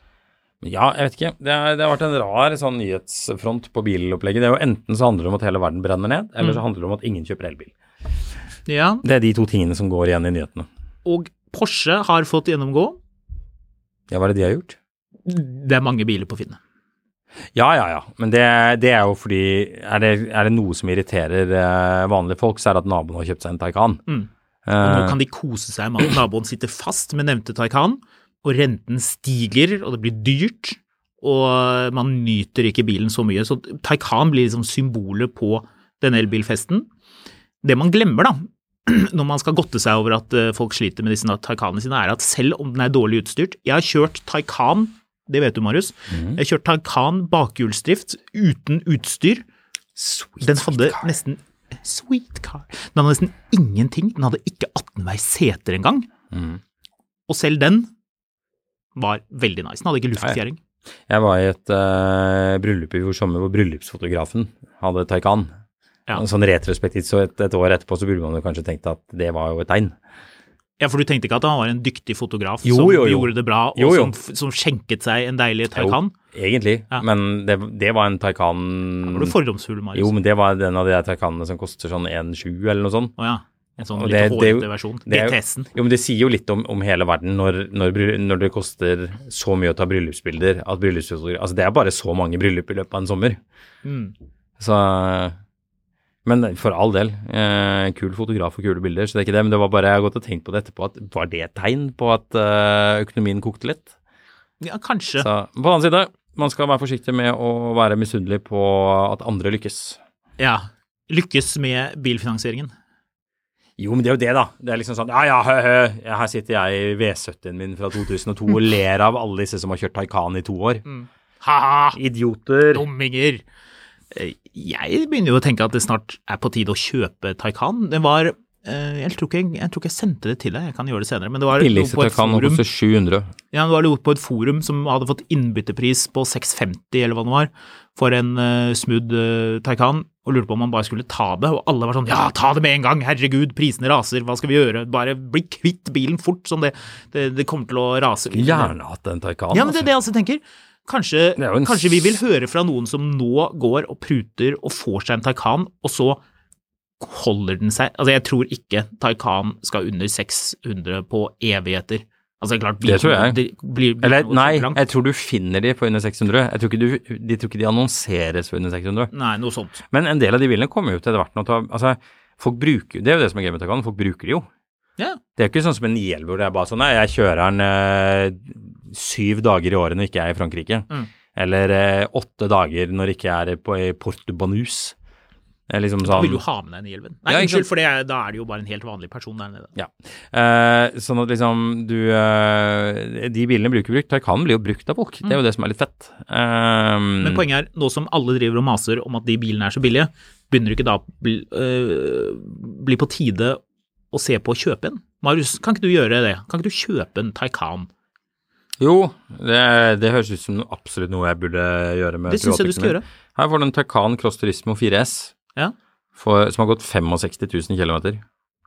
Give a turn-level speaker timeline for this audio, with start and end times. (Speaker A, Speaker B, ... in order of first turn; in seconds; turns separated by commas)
Speaker A: 0.6-7.7, Speaker B: 8.7-9.0, Speaker A: 9.0-10.7, Speaker B: 11.0-13.0, Speaker A: 14.1-14.8, Speaker B: 15.2-16.6, Speaker A: 17.5-24.0, Speaker A: 24.6-25.2, Speaker B: 24.8-36.9, Speaker B: 37.6-49.4, Speaker A: 46.1-46.4, Speaker A: 50.0-51.1, Speaker B: 50.4-56.1, Speaker A: 56.3-56.6, Speaker B: 57.3-57.9, Speaker B: 59.0-60.6, Speaker A: 61.1-65.5, Speaker A: 66.1-69.9, Speaker B: 70.8-76.1, Speaker A: 72.6-74.1, Speaker A: 75.7-79.3, Speaker B: 79.0-80.1, Speaker A: 79.9-83.1, Speaker B: 83.2-85.7, Speaker A: 83.9-93.4, Speaker B: 93.8-94.1, Speaker A: 94.6-95.3, Speaker A: 96.2-103.9, Speaker B: 104.6-105.3, Speaker A: 105.2-110.0, Speaker B: 110.4-112.7, Speaker A: 113.8-120.8, Speaker B: 120.8-122.0, Speaker A: 121.9-122.8, Speaker B: 122.7-123.4, Speaker B: 124.1-132.6, Speaker A: 131.5-133.3, Speaker B: 133.5-148.7, Speaker A: 148.3-149.9, Speaker B: 149.5-156.2, Speaker A: 151.4-152.2, Speaker B: 157.0-164.8, Speaker A: 162.8-163.4, Speaker A: 164.0-169.1, Speaker B: 169.1-169.8, Speaker A: 169.9-174.5, Speaker A: 175.4-184.9, Speaker A: 185.7-186.4, Speaker B: 186.0-189.7, Speaker A: 187.3-187.7, Speaker A: 189.8-197.4, Speaker B: 197.2-203.6, Speaker B: 204.1-207.9, Speaker A: 208.8-215.3, Speaker B: 212.3-213.0, Speaker A: 216.2-218.2